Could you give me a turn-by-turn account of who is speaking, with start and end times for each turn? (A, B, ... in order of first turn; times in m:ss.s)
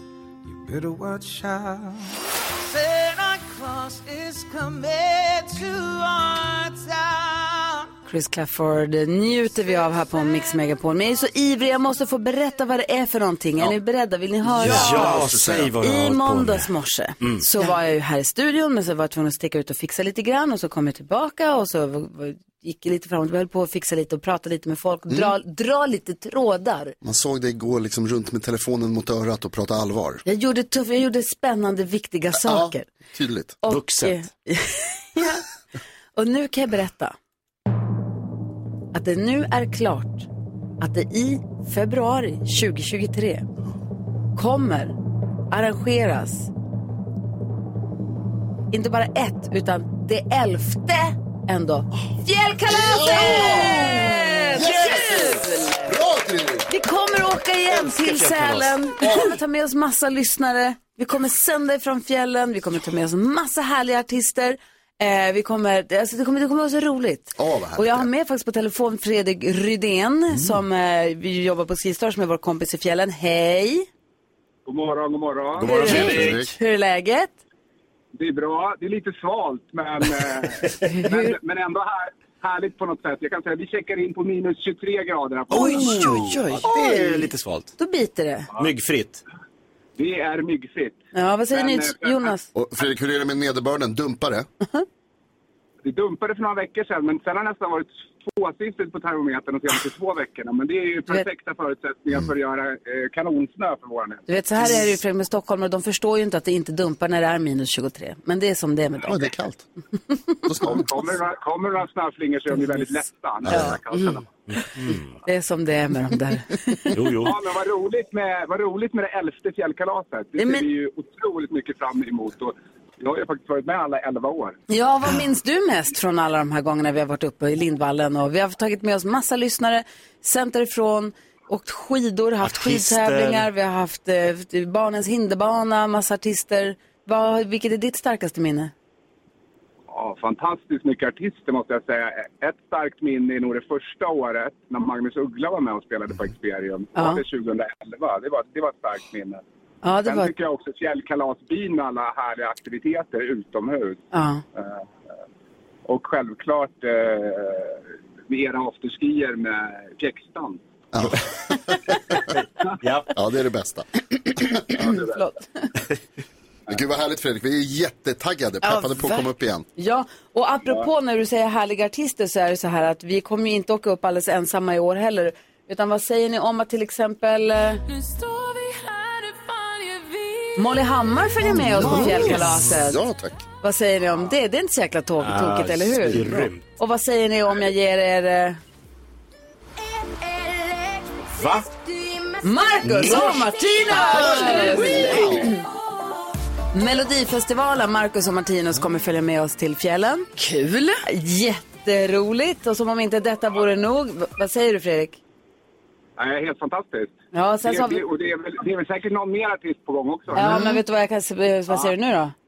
0:00.4-0:07.9 A
0:08.1-0:27.0 B
0:14.5-0:16.7 C
0:14.6-0:15.7 D
0:17.2-0:17.5 C
0:25.1-0:25.4 D
0:27.0-0:30.2 D
0:30.3-0:32.9 B
0:32.4-0:33.6 D
0:33.6-0:35.4 B
0:33.7-0:34.3 C
0:36.2-0:37.2 B
0:38.9-0:40.3 B
0:40.8-0:43.5 B
0:44.4-0:45.0 B
0:45.5-0:46.5 B
0:48.7-0:55.4 B
0:52.7-0:56.7 D
0:54.6-0:55.9 E
0:56.7-1:13.9 B
0:57.7-0:58.8 C
0:59.0-0:59.3 D
1:07.4-1:08.1 D
1:10.3-1:10.6 D
1:14.7-1:15.8 F
1:15.6-1:16.5 C
1:15.7-1:17.4 B
1:15.8-1:16.5 D
1:18.2-1:26.3 F
1:20.6-1:20.9 C
1:20.9-1:21.3 B
1:25.5-1:27.7 C
1:25.5-1:28.5 B
1:28.6-1:29.2 C
1:30.0-1:32.3 F
1:31.1-1:32.5 B
1:32.6-1:34.5 D
1:35.8-1:44.3 F
1:44.3-1:49.3 B
1:49.0-1:49.7 D
1:50.5-1:51.1 D
1:50.6-1:54.2 F
1:53.5-1:53.8 D
1:53.5-1:53.8 B
1:54.5-1:55.2 C
1:55.2-1:57.0 B
1:56.9-1:57.4 C
1:57.2-2:04.6 F
2:00.4-2:00.7 B
2:04.7-2:18.7 B
2:12.4-2:13.5 C
2:19.9-2:29.4 F
2:27.0-2:27.2 B
2:29.8-2:30.3 B
2:30.1-2:34.0 F
2:34.1-2:34.4 B
2:34.6-2:34.8 F
2:35.9-2:40.6 F
2:40.9-2:41.9 D
2:42.3-2:43.1 C
2:43.2-2:43.9 D
2:44.8-2:45.4 B
2:44.8-2:45.2 F
2:46.7-2:49.7 D
2:48.6-2:49.3 E
2:49.8-2:57.8 B
2:58.5-2:58.8 A
3:00.6-3:03.0 B
3:01.5-3:03.4 D
3:03.6-3:08.6 B
3:05.2-3:06.7 C
3:11.4-3:11.7 C
3:12.4-3:15.6 B
3:12.8-3:13.5 C
3:14.2-3:15.3 C
3:15.1-3:15.4 D
3:16.7-3:20.3 B
3:20.4-3:21.0 E
3:21.0-3:25.2 B
3:26.2-3:30.7 F
3:27.3-3:28.0 B
3:30.3-3:32.3 B